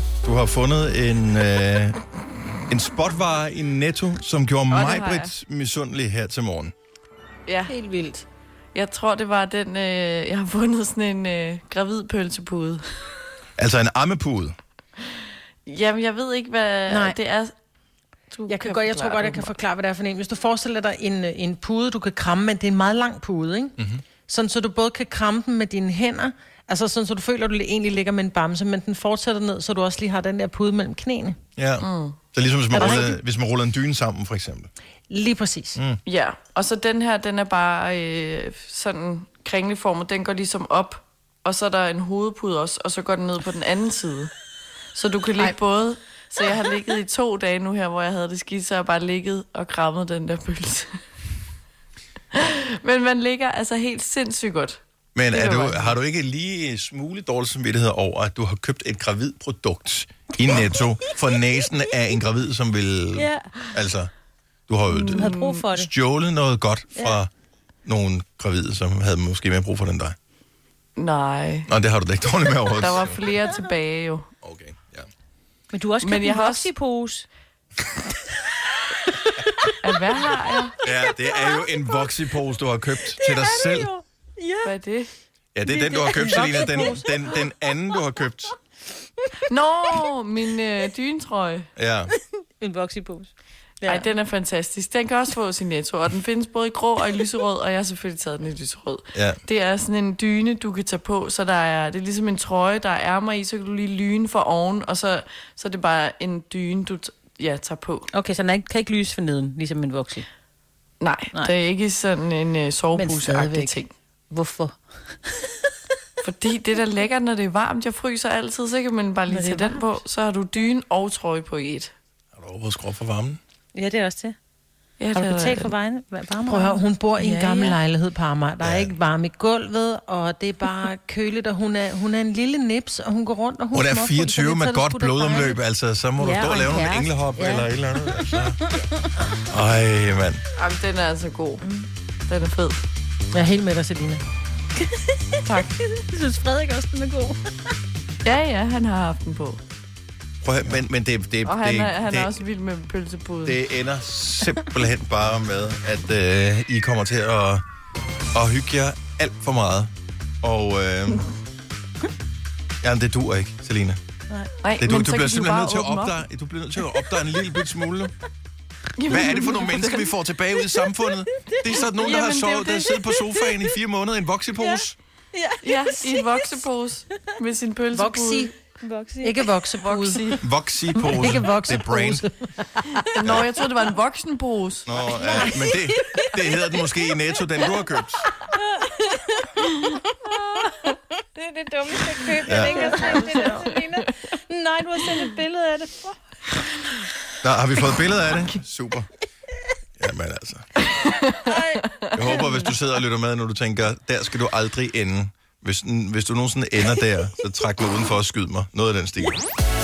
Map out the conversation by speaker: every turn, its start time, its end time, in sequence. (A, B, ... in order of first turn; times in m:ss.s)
0:00.2-0:02.0 A
0:02.7-0:06.7 A
0:04.7-0:05.3 B
0:07.5-0:07.8 B
0:07.7-0:08.1 C
0:08.7-0:12.8 B
0:13.6-0:14.6 A
0:15.7-0:17.5 B
0:16.9-0:17.2 D
0:18.3-0:19.5 B
0:18.5-0:23.8 D
0:24.3-0:31.4 D
0:31.6-0:34.7 A
0:31.8-0:32.2 B
0:32.7-0:33.1 B
0:32.7-0:33.1 D
0:35.1-0:35.8 D
0:35.8-0:36.0 A
0:36.1-0:44.3 B
0:44.9-0:51.0 B
0:52.3-0:54.8 B
0:55.2-1:04.1 A
0:55.3-0:56.0 B
1:04.7-1:07.3 A
1:04.9-1:05.7 B
1:05.2-1:05.7 C
1:05.2-1:05.9 D
1:07.8-1:10.2 A
1:11.0-1:11.7 B
1:11.7-1:13.2 A
1:12.8-1:14.3 B
1:14.4-1:15.1 A
1:15.7-1:17.3 C
1:16.0-1:16.7 B
1:19.8-1:20.8 B
1:20.8-1:23.9 A
1:23.2-1:24.6 D
1:23.4-1:23.9 C
1:24.4-1:24.7 C
1:24.6-1:25.1 B
1:25.6-1:28.5 A
1:25.7-1:27.4 C
1:25.9-1:27.2 D
1:29.5-1:31.7 B
1:31.8-1:32.1 A
1:32.6-1:33.3 C
1:33.9-1:48.1 B
1:39.2-1:39.4 A
1:48.1-1:50.3 C
1:51.0-1:53.9 B
1:53.0-1:53.8 C
1:54.3-1:54.8 C
1:56.2-2:01.9 B
1:59.3-1:59.9 C
2:02.4-2:03.4 A
2:03.8-2:04.4 C
2:05.0-2:05.7 B
2:05.2-2:15.6 D
2:05.8-2:07.8 C
2:08.6-2:09.0 A
2:13.7-2:18.6 A
2:16.2-2:18.2 C
2:19.4-2:20.4 A
2:20.6-2:21.7 B
2:22.3-2:22.9 B
2:23.3-2:24.2 D
2:25.4-2:25.8 B
2:25.9-2:27.4 C
2:28.2-2:29.6 B
2:30.4-2:32.3 A
2:31.4-2:33.6 B
2:33.5-2:37.6 A
2:38.3-2:39.9 A
2:40.4-2:41.3 A
2:42.8-2:44.0 A
2:44.6-2:46.2 B
2:44.8-2:48.1 A
2:49.0-2:50.1 B
2:49.1-2:55.0 A
2:51.9-2:53.3 B
2:55.3-2:56.2 C
2:55.6-2:58.5 B
2:57.9-2:58.5 D
2:58.0-2:59.7 C
2:59.2-3:00.4 D
2:59.8-3:01.4 B
3:00.4-3:02.3 A
3:01.1-3:02.8 D
3:03.0-3:05.5 B
3:04.9-3:08.3 A
3:05.3-3:05.8 D
3:11.6-3:14.1 B
3:11.9-3:16.1 C
3:12.0-3:16.0 D
3:12.4-3:12.8 A
3:17.4-3:19.1 A
3:20.0-3:20.7 A
3:21.0-3:22.1 B
3:21.5-3:21.8 D
3:22.1-3:29.4 A